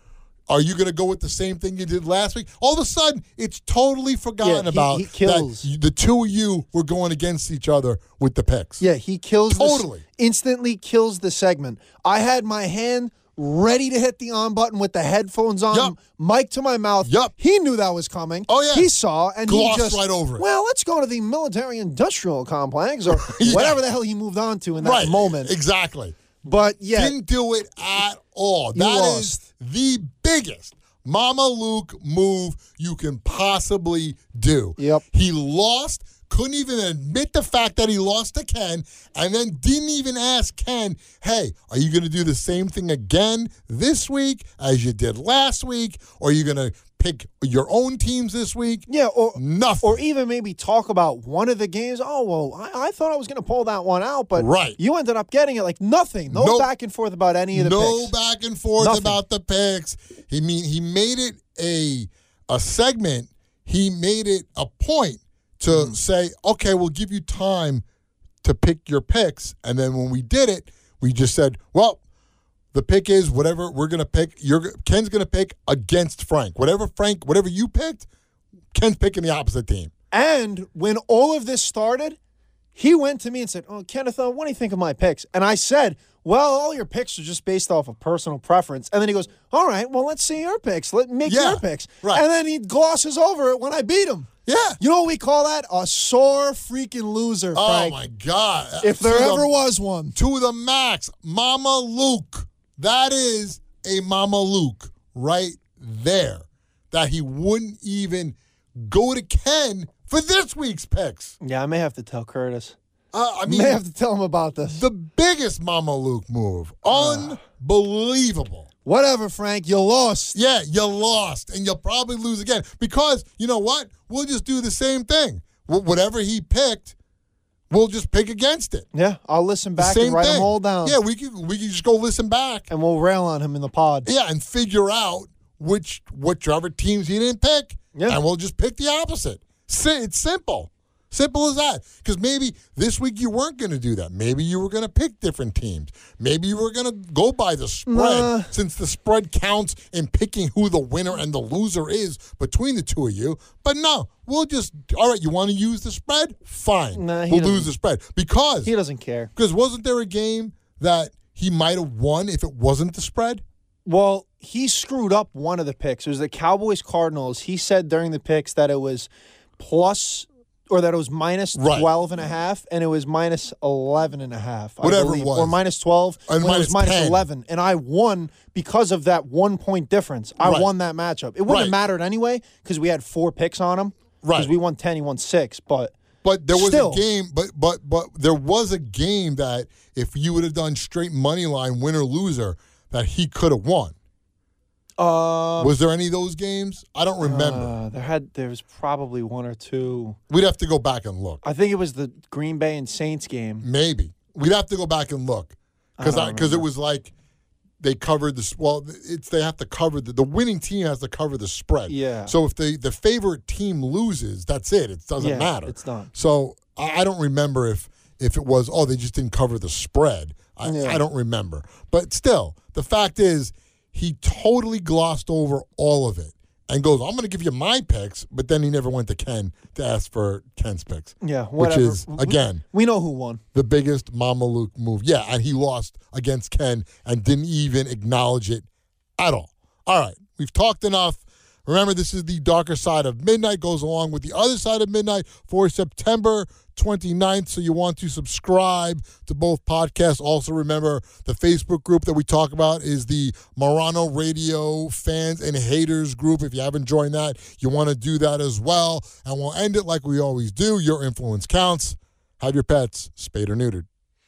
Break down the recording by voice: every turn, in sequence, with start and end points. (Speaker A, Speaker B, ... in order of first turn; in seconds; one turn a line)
Speaker A: 0.5-8.8
Speaker B: 4.4-5.7
Speaker B: 8.8-25.5
Speaker A: 9.5-10.0
Speaker A: 17.0-17.3
Speaker A: 18.5-18.9
Speaker A: 19.4-20.4
Speaker A: 23.1-23.8
Speaker A: 24.8-26.2
Speaker B: 26.4-27.1
Speaker A: 26.9-50.0
Speaker B: 28.7-29.4
Speaker B: 34.8-35.0
Speaker B: 48.9-58.1
Speaker A: 54.4-54.8
Speaker A: 56.3-56.7
Speaker A: 57.5-67.8
Speaker B: 58.8-59.2
Speaker B: 65.7-66.0
Speaker A: 68.4-72.0
Speaker A: 72.7-78.0
Speaker A: 78.7-79.9
Speaker B: 80.1-82.2
Speaker B: 82.8-98.0
Speaker A: 91.2-92.2
Speaker A: 94.5-94.8
Speaker A: 97.5-99.5
Speaker B: 98.8-100.1
Speaker A: 100.1-111.3
Speaker B: 111.4-112.8
Speaker A: 113.1-113.8
Speaker B: 113.5-114.8
Speaker A: 114.7-118.7
Speaker B: 116.9-117.4
Speaker B: 118.8-120.3
Speaker A: 120.3-126.9
Speaker A: 127.7-128.8
Speaker B: 128.9-131.0
Speaker A: 129.8-132.7
Speaker B: 132.7-134.1
Speaker A: 134.1-158.7
Speaker B: 137.9-138.2
Speaker B: 147.9-148.5
Speaker B: 156.9-157.7
Speaker B: 158.6-159.3
Speaker A: 159.3-163.4
Speaker B: 163.8-185.9
Speaker A: 171.6-171.9
Speaker A: 174.8-175.6
Speaker A: 176.3-177.3
Speaker A: 180.4-180.7
Speaker A: 181.5-181.8
Speaker A: 184.2-184.5
Speaker A: 186.2-193.9
Speaker B: 186.5-187.0
Speaker B: 195.0-195.7
Speaker A: 195.6-197.7
Speaker B: 197.2-200.2
Speaker A: 200.3-201.4
Speaker B: 201.4-203.7
Speaker A: 203.6-207.1
Speaker B: 206.0-206.7
Speaker A: 207.8-232.6
Speaker B: 211.9-212.3
Speaker B: 215.2-216.1
Speaker B: 220.6-221.0
Speaker B: 231.2-233.4
Speaker A: 233.5-263.9